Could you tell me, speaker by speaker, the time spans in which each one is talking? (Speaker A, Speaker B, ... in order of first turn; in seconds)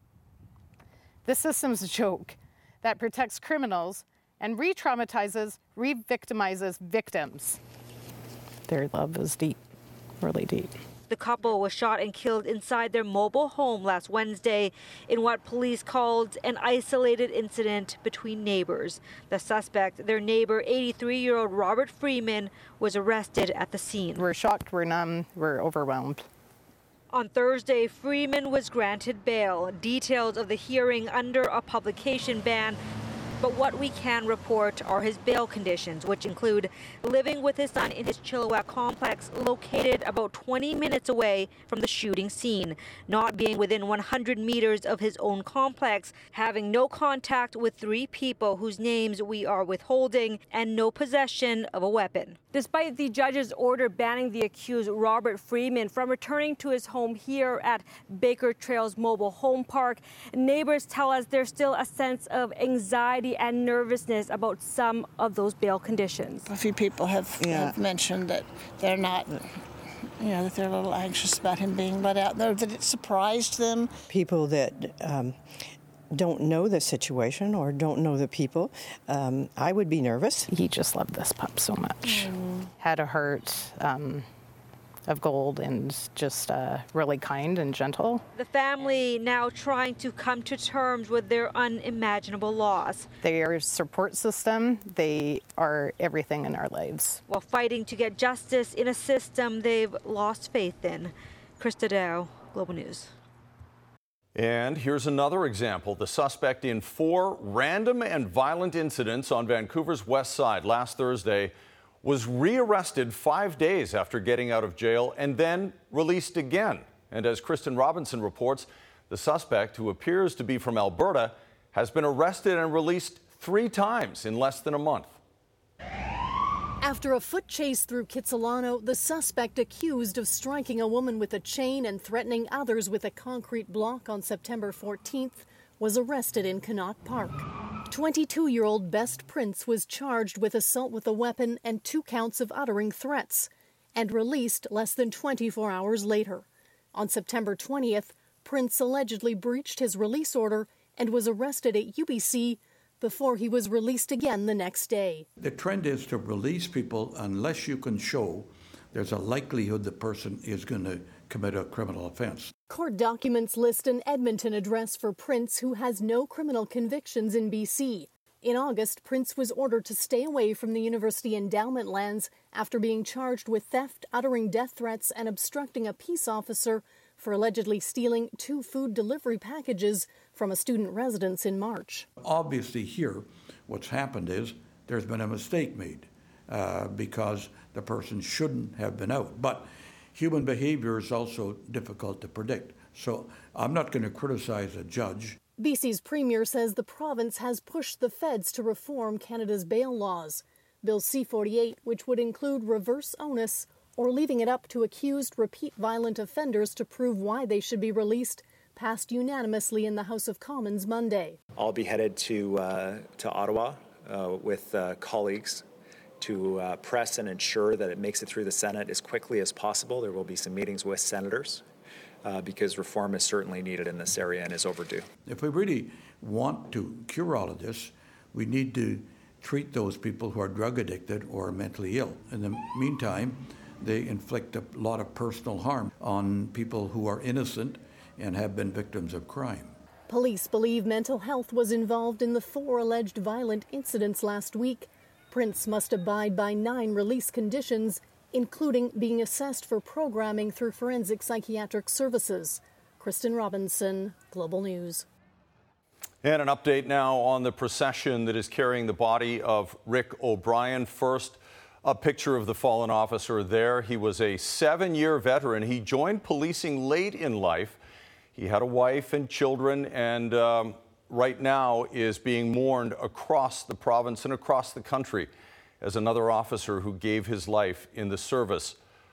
Speaker A: 1.2-7.6, 8.7-9.6, 10.2-10.7, 24.2-26.2, 80.5-82.1, 82.8-84.2, 85.1-88.2, 93.2-97.2
Speaker B: 11.1-24.2, 27.1-32.8, 33.4-66.5, 88.3-93.1, 97.3-103.1
Speaker C: 66.5-69.4, 70.2-73.9
Speaker D: 67.4-67.7, 74.1-80.5
Speaker E: 104.3-125.2, 256.2-267.8, 268.3-275.3, 275.8-278.8
Speaker F: 126.8-155.2, 162.7-182.1, 195.6-211.4, 240.1-255.1
Speaker G: 155.4-162.5, 182.2-195.4, 225.2-239.8
Speaker H: 211.6-215.6, 216.2-221.6, 222.2-225.1